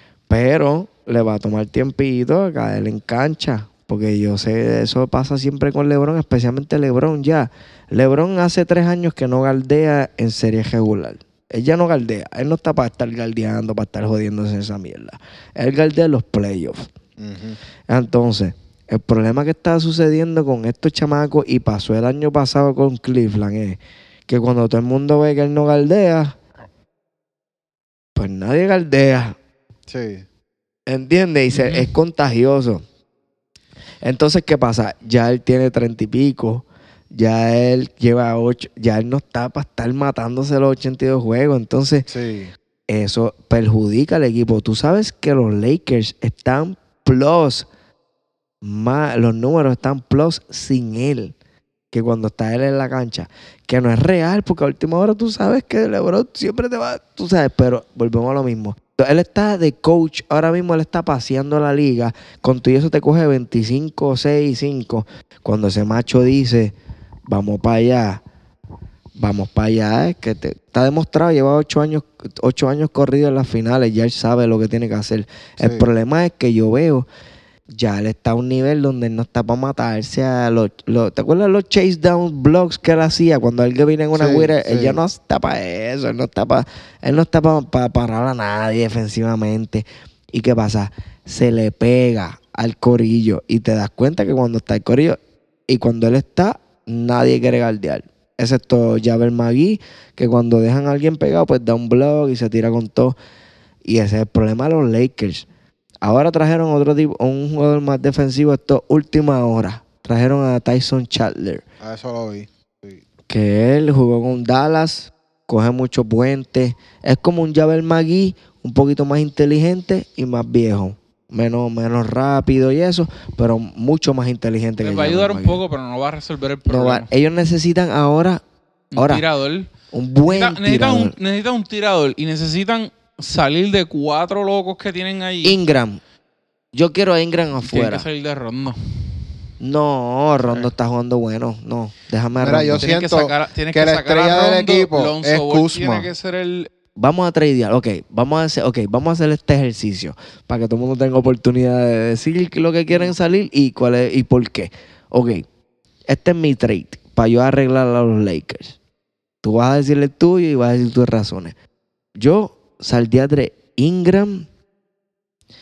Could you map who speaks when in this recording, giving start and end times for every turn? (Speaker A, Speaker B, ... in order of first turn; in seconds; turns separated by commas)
Speaker A: 0.3-16.9, Speaker B: 17.2-17.6, Speaker A: 17.9-26.3, Speaker A: 28.1-29.4, Speaker B: 29.9-30.2, Speaker A: 30.9-32.8, Speaker C: 31.5-31.9, Speaker A: 34.0-42.1, Speaker B: 42.1-42.5, Speaker A: 42.9-47.7, Speaker A: 48.6-51.3, Speaker A: 51.9-66.7, Speaker A: 67.3-68.2, Speaker A: 69.2-77.0, Speaker B: 75.6-75.9, Speaker A: 77.8-95.2, Speaker B: 84.1-85.0, Speaker A: 95.7-103.1, Speaker A: 103.9-105.5, Speaker A: 106.0-111.6, Speaker B: 111.8-113.0, Speaker A: 113.3-125.6, Speaker C: 124.8-127.1, Speaker A: 126.7-128.4, Speaker C: 128.9-129.7, Speaker A: 128.9-129.2, Speaker A: 129.9-131.1, Speaker C: 130.2-135.6, Speaker A: 135.4-136.0, Speaker A: 136.7-138.0, Speaker C: 137.6-139.0, Speaker A: 139.6-142.9, Speaker B: 142.4-146.1, Speaker C: 142.7-146.7, Speaker A: 147.0-155.4, Speaker A: 156.1-158.7, Speaker A: 159.4-161.5, Speaker A: 162.2-164.5